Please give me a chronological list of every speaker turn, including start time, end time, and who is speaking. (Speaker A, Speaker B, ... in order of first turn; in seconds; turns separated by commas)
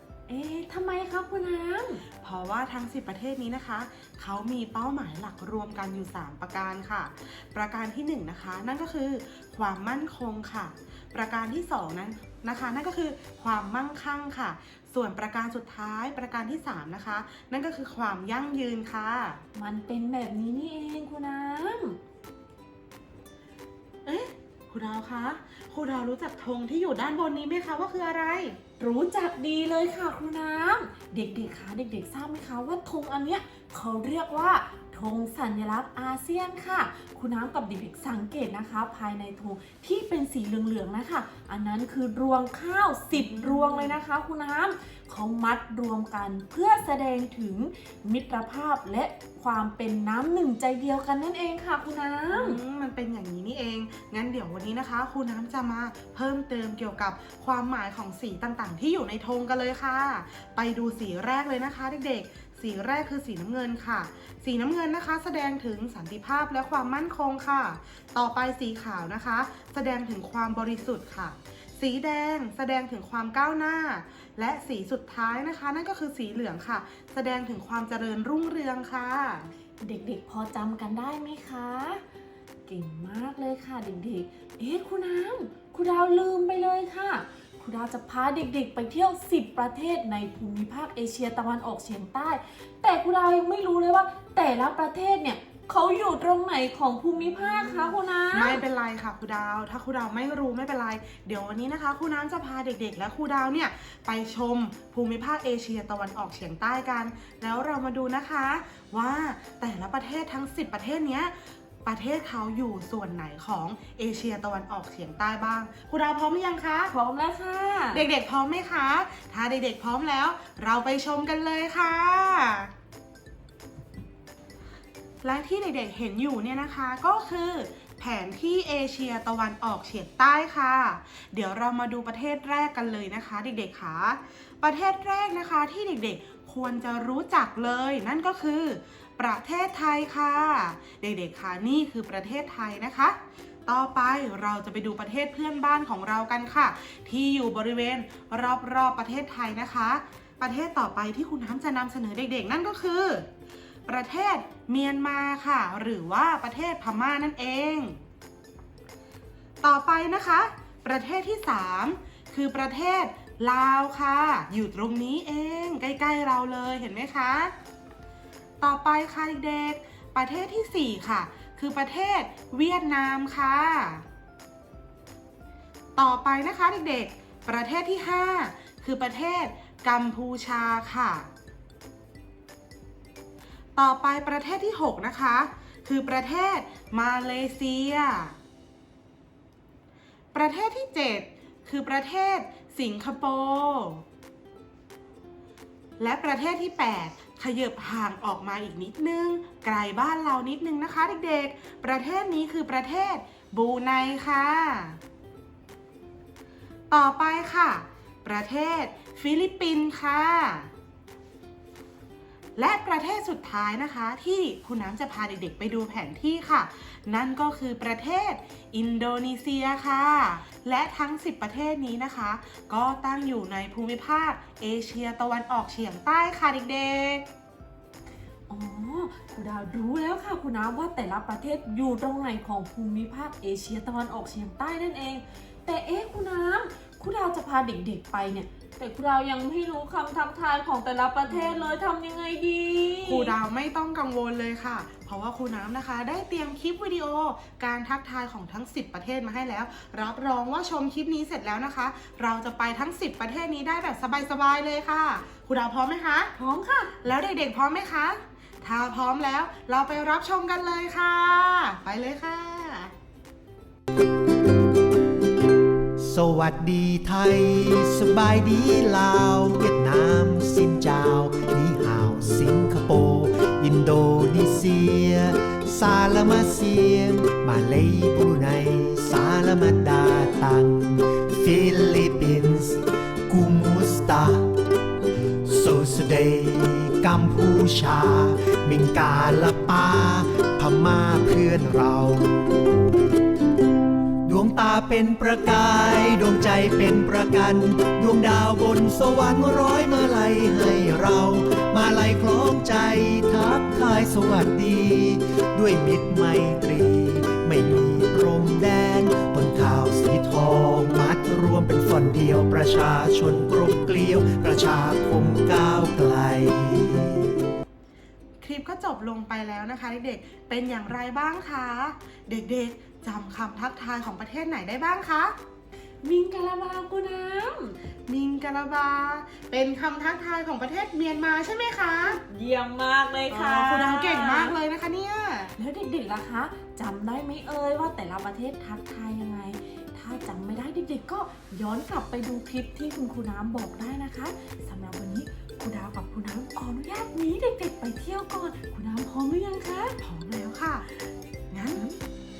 Speaker A: 0.3-2.0, Speaker B: 2.2-19.4, Speaker A: 19.5-22.0, Speaker B: 24.0-28.6, Speaker A: 28.8-52.6, Speaker B: 43.1-44.0, Speaker B: 52.3-79.5, Speaker A: 79.8-82.0, Speaker A: 82.7-98.6, Speaker B: 97.3-116.9, Speaker A: 116.9-118.0, Speaker B: 117.9-122.7, Speaker B: 125.2-153.3, Speaker B: 153.9-158.0, Speaker B: 159.6-167.5, Speaker B: 168.6-174.0, Speaker B: 175.9-181.3, Speaker B: 183.8-188.3, Speaker B: 190.3-194.0, Speaker B: 196.0-205.0, Speaker B: 206.9-210.7, Speaker B: 212.6-227.2, Speaker A: 228.5-243.3, Speaker B: 241.3-241.7, Speaker B: 243.0-256.3, Speaker A: 256.4-256.9, Speaker B: 257.0-262.9, Speaker C: 266.0-284.5, Speaker C: 285.4-292.3, Speaker C: 294.2-317.4, Speaker B: 318.4-325.4, Speaker A: 326.0-327.8, Speaker B: 328.1-332.2, Speaker A: 332.3-334.6, Speaker B: 333.3-335.5, Speaker A: 335.6-349.9, Speaker B: 350.0-350.9, Speaker B: 351.5-351.8